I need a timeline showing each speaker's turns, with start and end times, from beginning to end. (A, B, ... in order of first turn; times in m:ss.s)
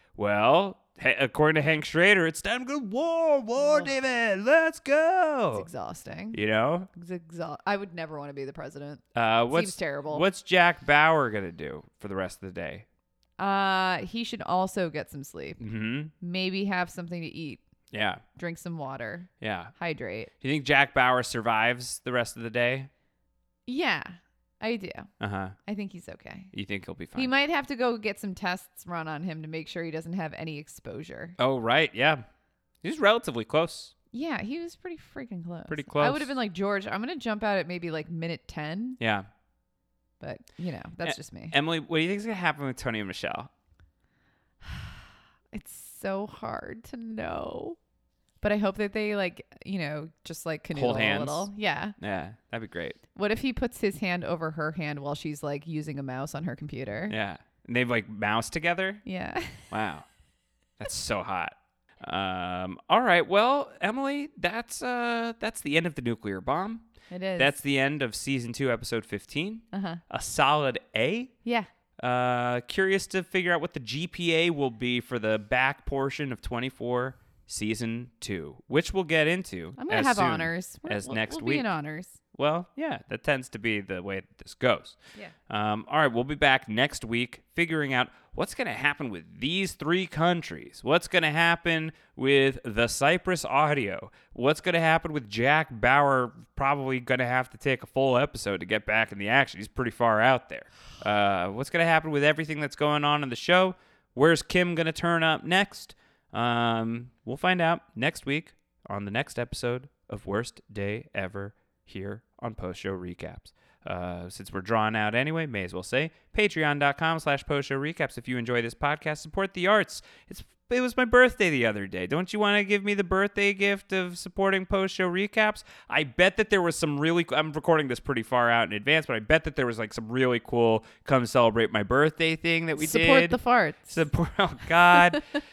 0:00.2-0:05.7 A
0:03.6-0:04.0 B
0:05.5-0:06.4 B
0:06.3-0:06.9 A
0:06.9-0:10.2 B
0:09.2-0:12.8 A
0:13.4-0:15.6 B
0:15.6-0:16.1 A
0:16.2-0:17.6 B
0:17.9-0:18.2 A
0:18.4-0:20.3 B
0:19.4-0:19.7 A
0:20.4-0:22.9 A
0:23.7-0:25.1 B
0:25.2-0:25.6 A
0:25.6-0:26.5 B
0:26.5-0:27.3 A
0:27.2-0:31.4 B
0:31.4-0:32.2 A
0:32.8-0:33.9 A
0:34.1-0:39.0 B
0:35.7-0:36.3 A
0:39.0-0:39.3 A
0:40.2-0:41.6 B
0:41.0-0:43.5 A
0:45.5-0:47.8 B
0:48.4-0:52.0 B
0:50.7-0:51.5 A
0:52.0-0:53.0 A
0:53.2-0:57.2 B
0:57.1-0:59.0 A
0:59.0-0:59.7 B
0:59.7-1:00.0 A
1:00.8-1:06.8 A
1:07.1-1:07.5 B
1:07.4-1:11.3 A
1:09.7-1:10.0 B
1:12.0-1:21.7 A
1:19.8-1:22.2 B
1:22.3-1:25.0 A
1:25.5-2:15.2 A
2:12.8-2:13.9 B